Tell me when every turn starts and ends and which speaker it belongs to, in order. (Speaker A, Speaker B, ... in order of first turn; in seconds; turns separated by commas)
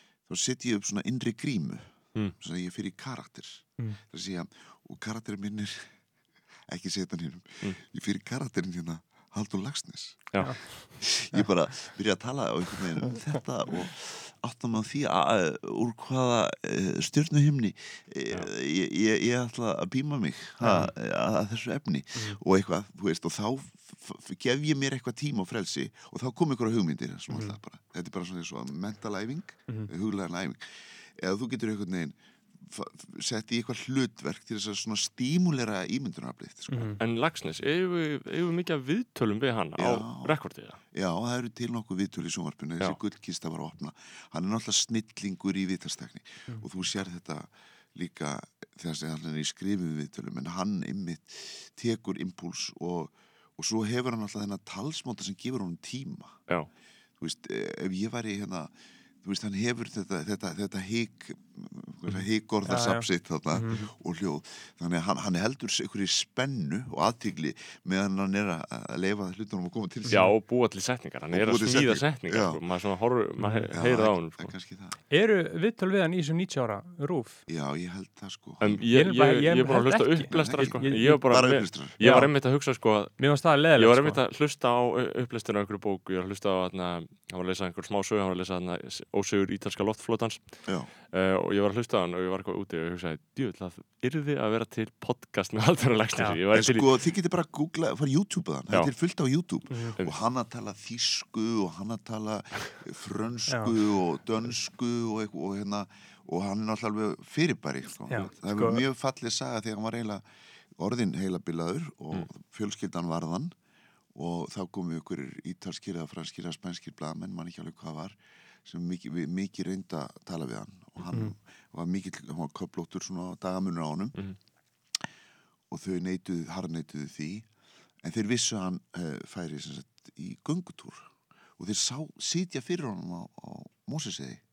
Speaker A: 0.3-5.9, Speaker A: 6.7-37.0, Speaker B: 10.3-11.0, Speaker C: 10.4-11.4, Speaker C: 20.6-20.9, Speaker C: 27.3-27.6, Speaker C: 36.7-37.0, Speaker B: 37.0-40.8, Speaker A: 39.8-40.4, Speaker A: 40.9-56.4, Speaker A: 57.2-70.3, Speaker C: 62.6-63.8, Speaker C: 70.1-70.3, Speaker B: 70.1-74.5, Speaker A: 71.3-72.6, Speaker C: 73.4-73.7, Speaker A: 73.7-75.0, Speaker C: 75.1-77.4, Speaker A: 77.5-78.8, Speaker B: 78.6-96.9, Speaker C: 78.9-82.4, Speaker A: 80.3-82.0, Speaker C: 83.1-84.2, Speaker A: 90.6-90.9, Speaker A: 96.5-110.2, Speaker C: 99.7-100.0, Speaker C: 103.5-103.7, Speaker C: 108.1-108.8, Speaker A: 110.7-113.5, Speaker A: 114.1-124.2, Speaker A: 125.7-127.5, Speaker A: 128.0-134.4